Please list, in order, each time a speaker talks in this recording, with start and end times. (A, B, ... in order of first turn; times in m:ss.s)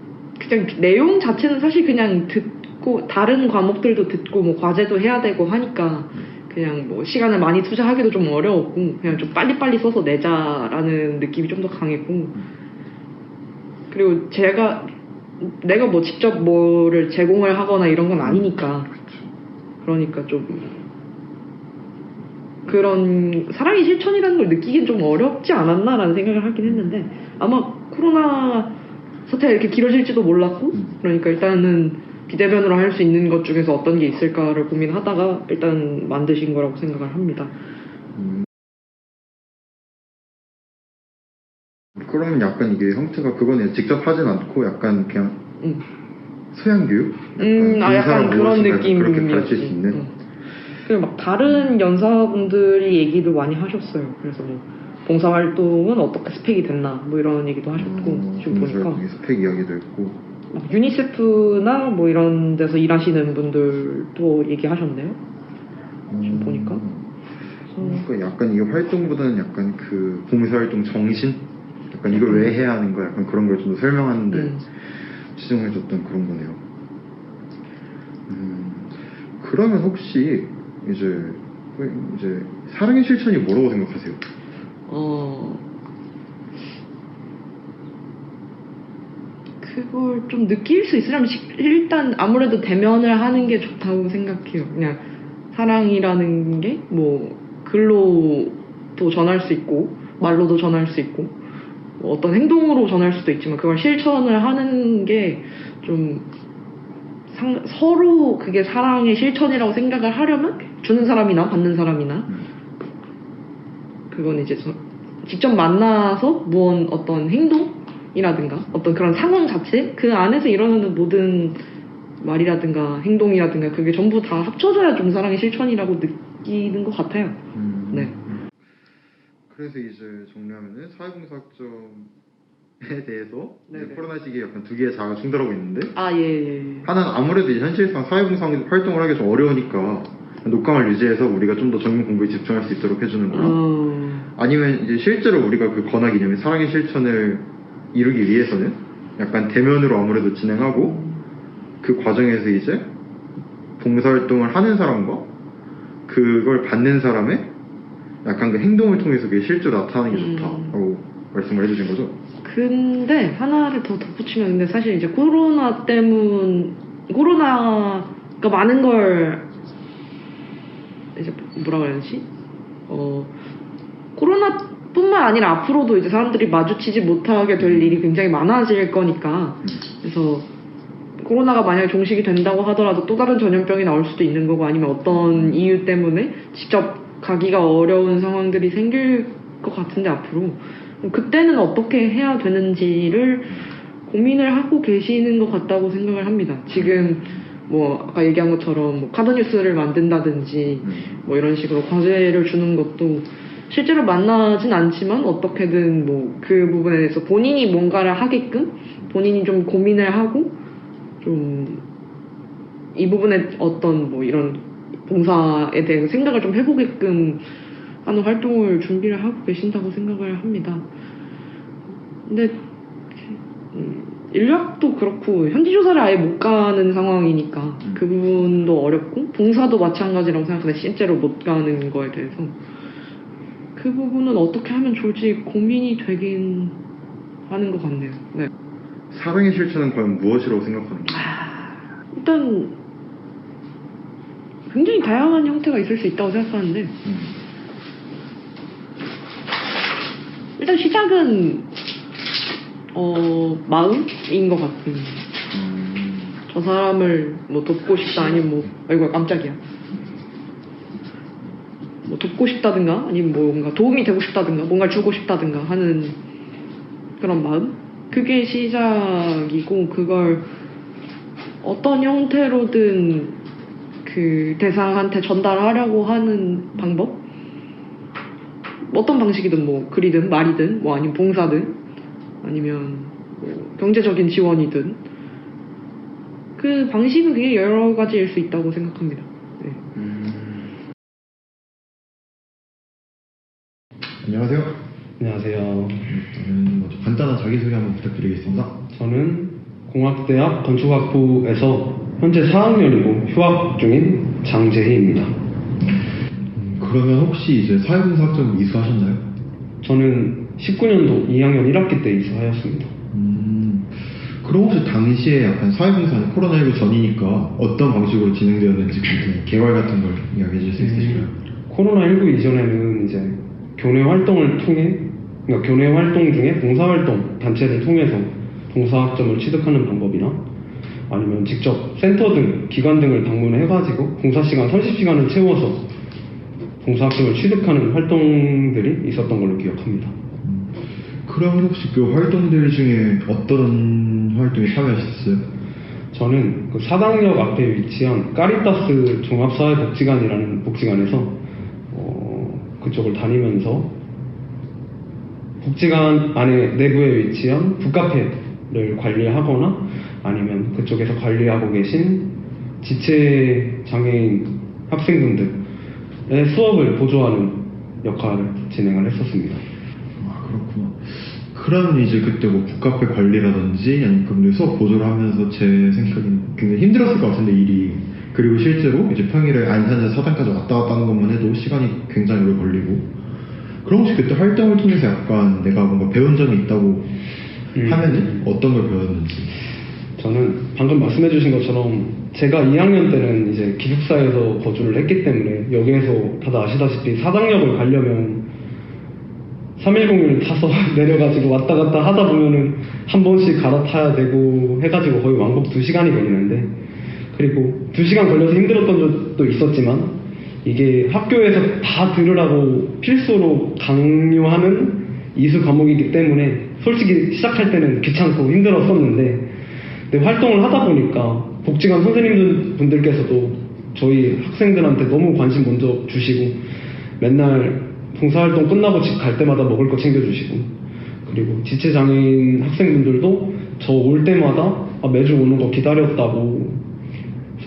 0:00.4-0:12.4 A
0:13.9-0:18.9 A
0:18.2-0:19.3 B
0:19.8-0:20.8 A
0:22.6-0:37.5 A
0:26.6-0:26.9 B
0:30.7-0:31.0 B
0:38.2-0:38.4 B
0:42.0-0:45.4 B
0:46.5-0:50.0 B
0:47.4-0:50.1 A
0:50.8-0:59.0 A
0:51.4-0:51.8 B
0:57.7-1:00.2 B
1:00.5-1:05.2 A
1:06.1-1:07.1 B
1:06.2-1:06.8 A
1:07.7-1:08.0 A
1:07.8-1:14.6 B
1:12.1-1:12.6 A
1:14.3-1:14.6 A
1:15.3-1:16.6 B
1:18.3-1:24.2 B
1:24.9-1:25.6 A
1:29.6-1:41.4 A
1:42.0-1:46.3 A
1:47.3-1:52.3 A
1:54.1-2:01.6 A
2:02.2-2:07.4 A
2:07.5-2:08.5 B
2:09.5-2:12.1 B
2:12.8-2:15.9 B
2:13.7-2:14.1 A
2:15.9-2:16.9 A
2:16.8-2:23.6 B
2:23.3-2:24.3 A
2:24.3-2:31.0 B
2:30.8-2:31.2 A
2:31.8-2:32.9 B
2:33.8-2:35.3 B
2:36.1-2:37.5 B
2:38.2-2:42.2 B
2:40.1-2:40.7 A
2:42.4-2:49.4 A
2:51.2-2:52.3 A
2:52.9-2:53.4 A
2:54.1-3:00.5 A
2:57.6-2:58.0 B
3:01.2-3:30.6 A
3:05.1-3:05.6 B
3:16.7-3:17.5 B
3:20.8-3:21.2 B
3:31.2-3:31.8 A
3:32.9-3:37.4 A
3:38.0-3:40.9 A
3:42.3-3:42.6 A
3:43.1-3:52.6 A
3:53.8-3:56.8 A
3:57.5-3:58.5 A
3:59.1-4:01.4 B
4:01.2-4:02.8 A
4:04.7-4:06.9 A
4:07.0-4:07.4 B
4:10.6-4:11.7 A
4:12.9-4:15.2 A
4:15.5-4:16.4 B
4:16.5-4:19.6 A
4:22.0-4:26.2 A
4:27.2-4:30.4 A
4:31.6-4:33.4 A
4:34.0-4:37.2 A
4:38.9-4:41.8 A
4:42.4-4:45.0 A
4:46.6-4:49.8 A
4:49.9-4:50.8 B
4:54.2-4:54.8 B
4:55.2-4:56.1 C
4:56.0-4:58.7 B
4:58.9-5:05.3 C
5:06.5-5:09.2 B
5:09.8-5:12.9 C
5:13.1-5:21.4 B
5:20.8-5:30.4 C
5:31.1-5:35.9 C
5:36.8-5:40.2 C
5:40.4-5:45.5 B
5:46.1-5:53.9 C
5:55.6-6:05.6 C
6:06.3-6:09.6 C
6:10.2-6:23.1 B
6:23.8-6:27.1 B
6:27.7-6:28.4 C
6:27.8-6:29.6 B
6:30.2-6:38.5 C
6:39.8-6:46.8 C
6:47.3-6:59.5 C
7:00.1-7:06.6 C
7:07.2-7:10.7 C
7:11.2-7:16.8 C